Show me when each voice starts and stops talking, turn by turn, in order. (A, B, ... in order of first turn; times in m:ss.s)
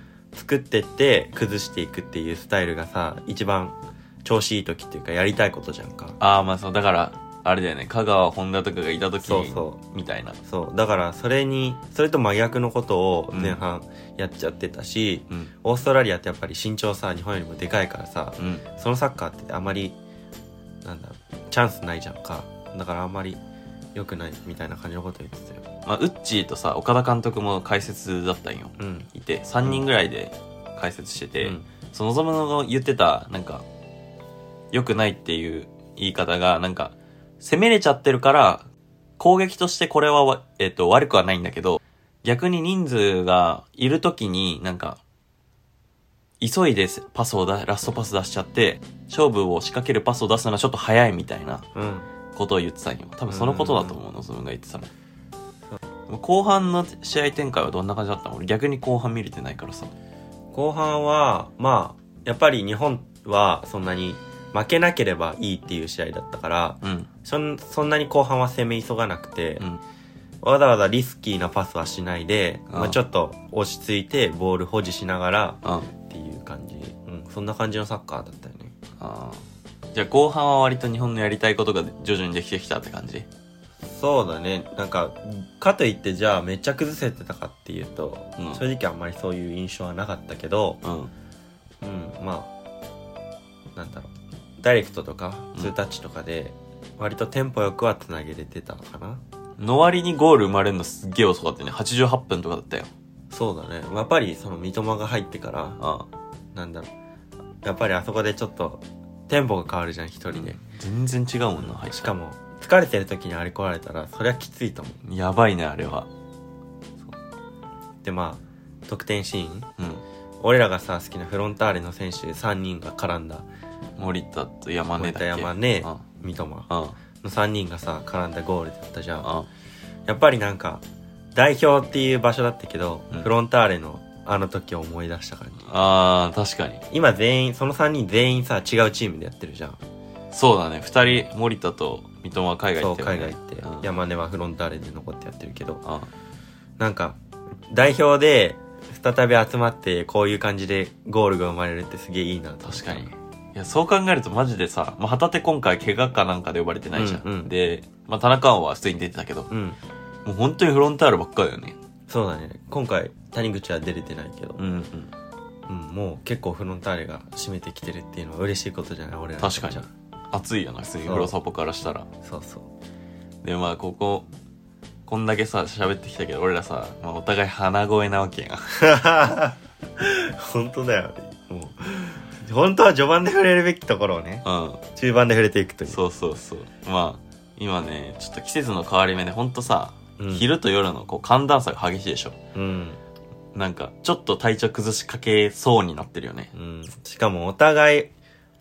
0:00.3-0:06.2 A
0:06.2-0:10.4 B
0:09.2-0:09.8 A
0:10.4-0:20.0 A
0:13.3-0:13.6 B
0:18.4-0:18.6 B
0:20.8-0:23.4 A
0:23.9-0:25.6 A
0:25.8-0:33.6 B
0:28.8-0:29.1 A
0:34.7-0:38.7 B
0:39.2-0:45.0 B
0:46.4-0:51.7 B
0:51.8-0:52.1 A
0:52.3-0:54.9 B
0:53.3-0:54.0 A
0:56.1-0:59.9 B
1:00.5-1:09.6 A
1:06.8-1:07.1 B
1:10.4-1:18.7 A
1:12.7-1:13.0 B
1:15.6-1:15.9 B
1:19.0-1:23.3 B
1:23.8-1:30.8 A
1:28.4-1:28.6 B
1:30.8-1:31.1 B
1:31.8-1:32.5 A
1:33.8-1:39.2 A
1:39.6-1:42.9 B
1:43.3-1:45.8 A
1:45.8-1:46.1 B
1:46.5-1:46.9 A
1:47.6-1:50.6 A
1:50.3-1:52.2 B
1:51.6-1:55.0 A
1:55.0-1:56.1 B
1:58.0-1:59.7 A
1:59.8-2:00.0 B
2:00.4-2:03.5 A
2:04.0-2:06.0 B
2:05.0-2:09.3 A
2:06.7-2:07.0 B
2:09.2-2:09.5 B
2:10.1-2:15.7 A
2:15.6-2:16.8 B
2:16.9-2:19.8 A
2:20.3-2:23.9 B
2:22.8-2:25.8 A
2:25.8-2:26.1 B
2:26.8-2:33.1 A
2:32.6-2:39.5 B
2:37.0-2:37.5 A
2:39.5-2:39.8 A
2:40.2-2:41.8 B
2:42.1-2:44.6 A
2:44.6-2:45.1 B
2:45.7-2:49.9 A
2:49.4-2:52.1 B
2:51.0-2:51.3 A
2:52.2-2:52.7 A
2:53.4-2:54.3 B
2:55.1-2:58.8 B
2:58.8-3:04.4 A
3:04.4-3:04.8 B
3:05.0-3:06.0 A
3:05.9-3:12.4 B
3:10.2-3:10.4 A
3:12.6-3:13.0 A
3:13.6-3:16.5 B
3:16.5-3:18.1 A